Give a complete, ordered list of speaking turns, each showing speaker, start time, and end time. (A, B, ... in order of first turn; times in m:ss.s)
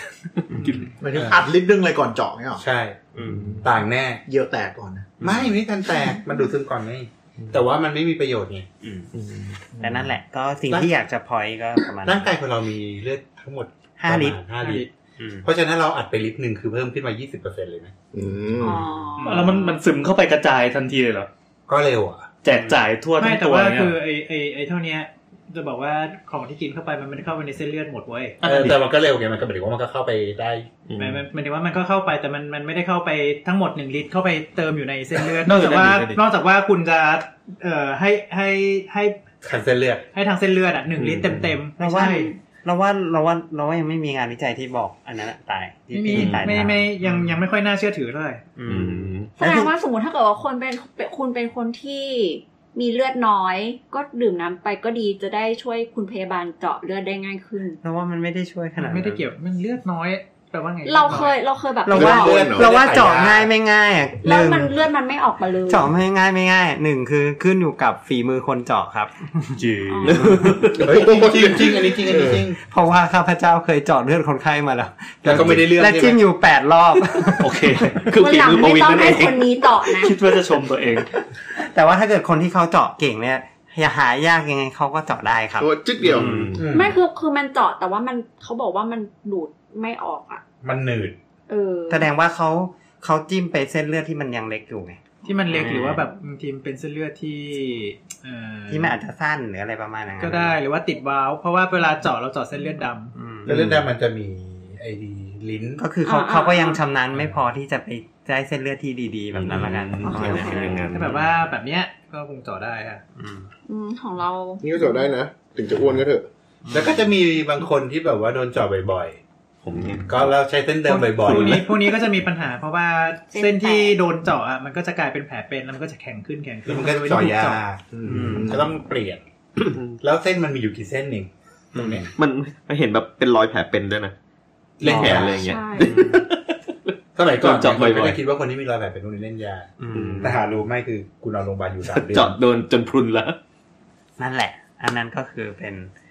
0:00.5-0:00.9 A
0:01.0-0:02.6 B
0:01.1-0:01.5 C
0:02.6-0:04.2 C
0:03.1-0:03.5 D
0:04.2-0:05.1 B
0:05.2-0:05.5 D
0:05.2-0:08.7 C
0:08.8-0:09.1 D
0:09.1-0:09.6 A
0:09.7-0:10.1 B
0:09.8-0:12.4 D
0:12.0-0:14.9 C
0:14.0-0:14.4 D
0:14.6-0:14.9 E
0:15.2-0:15.5 D
0:15.4-0:17.9 C
0:18.1-0:18.8 F
0:18.6-0:19.8 G
0:19.2-0:19.6 E
0:19.2-0:21.3 H
0:21.7-0:22.3 C
0:22.4-0:24.0 H
0:22.5-0:22.8 D
0:23.2-0:28.4 E
0:28.4-0:30.7 C
0:28.4-0:28.8 H
0:30.9-0:31.2 A
0:31.0-0:39.2 E
0:35.4-0:36.2 H
0:39.4-0:40.0 C
0:40.1-0:42.3 E
0:41.0-0:41.6 A
0:41.8-0:47.4 D
0:41.9-0:42.4 G
0:45.9-0:48.4 E
0:46.1-0:46.6 A
0:48.5-0:49.7 D
0:48.7-0:49.3 A
0:49.4-0:57.8 G
0:57.8-0:59.2 D
0:58.8-1:01.4 E
1:00.8-1:02.4 G
1:01.8-1:04.8 D
1:01.9-1:03.5 C
1:02.0-1:02.7 F
1:04.2-1:05.9 G
1:05.7-1:09.6 D
1:09.6-1:10.9 H
1:09.9-1:10.2 G
1:10.1-1:10.6 D
1:10.8-1:12.6 C
1:10.9-1:12.4 F
1:12.5-1:17.6 D
1:15.2-1:16.2 C
1:15.3-1:15.6 H
1:17.4-1:21.1 H
1:18.2-1:19.2 A
1:18.2-1:20.1 G
1:21.5-1:26.6 D
1:25.6-1:26.3 F
1:26.0-1:26.6 A
1:26.5-1:26.9 C
1:26.7-1:30.4 G
1:30.6-1:31.2 C
1:31.5-1:32.1 G
1:31.9-1:36.0 D
1:35.2-1:39.0 E
1:38.7-1:40.6 D
1:40.2-1:43.1 E
1:43.1-1:43.6 D
1:43.4-1:45.8 C
1:45.8-1:50.9 D
1:46.1-1:46.8 G
1:49.3-1:51.3 A
1:50.0-1:50.7 G
1:50.9-1:53.0 E
1:53.2-1:53.5 D
1:53.7-1:55.1 G
1:54.6-1:56.2 F
1:56.6-1:57.1 D
1:56.7-1:59.2 C
1:59.6-2:00.3 A
2:00.1-2:01.7 C
2:00.8-2:07.6 E
2:03.3-2:04.0 G
2:06.6-2:09.2 C
2:08.0-2:08.4 B
2:08.1-2:08.6 D
2:09.9-2:12.1 C
2:11.7-2:14.1 A
2:14.8-2:16.2 C
2:14.8-2:16.5 A
2:14.8-2:16.2 D
2:15.3-2:16.0 G
2:17.2-2:22.4 C
2:17.3-2:18.2 A
2:19.8-2:20.4 D
2:19.9-2:20.4 A
2:21.9-2:23.4 A
2:24.2-2:25.9 D